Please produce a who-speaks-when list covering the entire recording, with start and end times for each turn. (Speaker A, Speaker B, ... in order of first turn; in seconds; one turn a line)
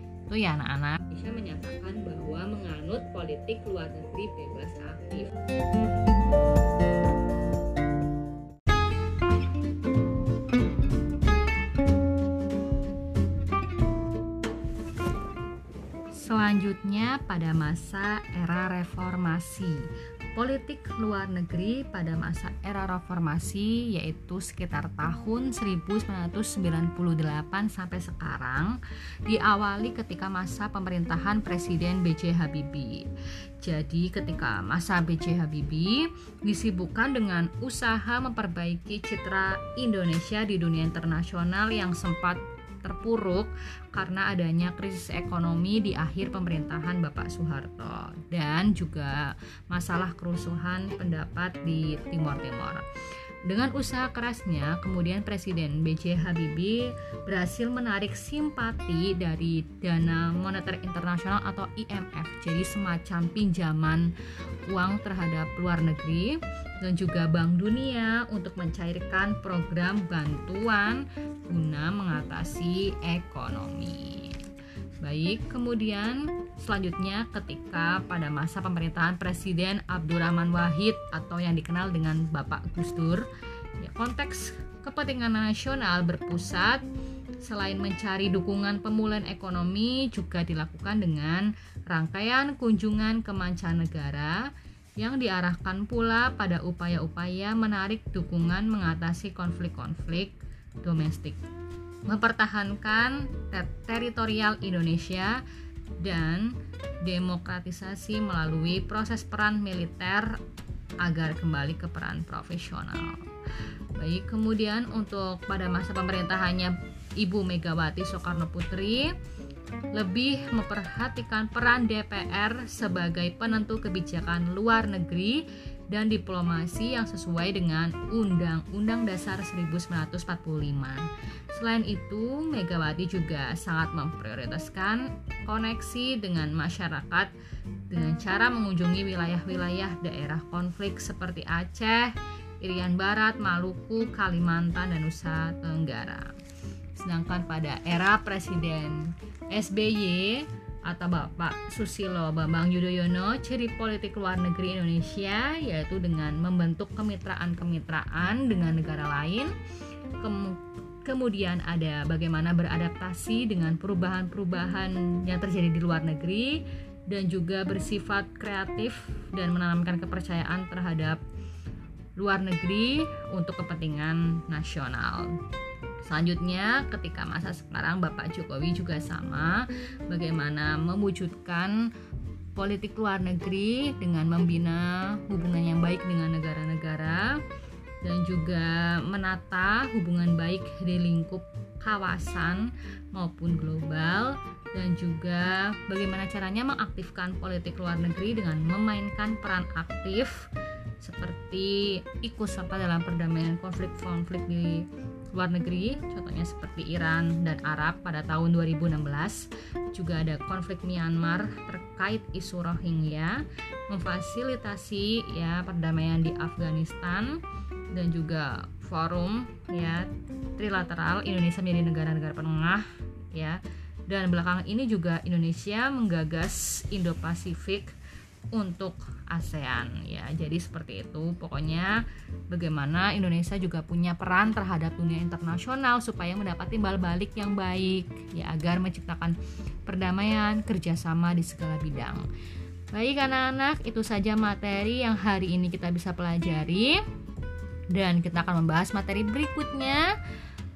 Speaker A: 0.3-5.3
Speaker A: 16.1-33.1
Speaker A: 33.6-52.9
Speaker A: 53.5-64.1
Speaker A: 64.7-74.4
Speaker A: 75.0-83.3
Speaker A: 83.8-86.8
Speaker A: 87.4-101.4
Speaker A: 102.1-105.4
Speaker A: 106.0-110.4
Speaker A: 111.0-113.2
Speaker A: 114.0-119.1
Speaker A: 119.9-137.3
Speaker A: 137.9-146.3
Speaker A: 147.0-159.5
Speaker A: 160.2-171.2
Speaker A: 172.2-175.4
Speaker A: 176.0-181.9
Speaker A: 182.5-187.4
Speaker A: 188.0-200.4
Speaker A: 201.0-217.4
Speaker A: 217.9-227.9
Speaker A: 228.5-242.3
Speaker A: 242.9-247.0
Speaker A: 247.9-250.1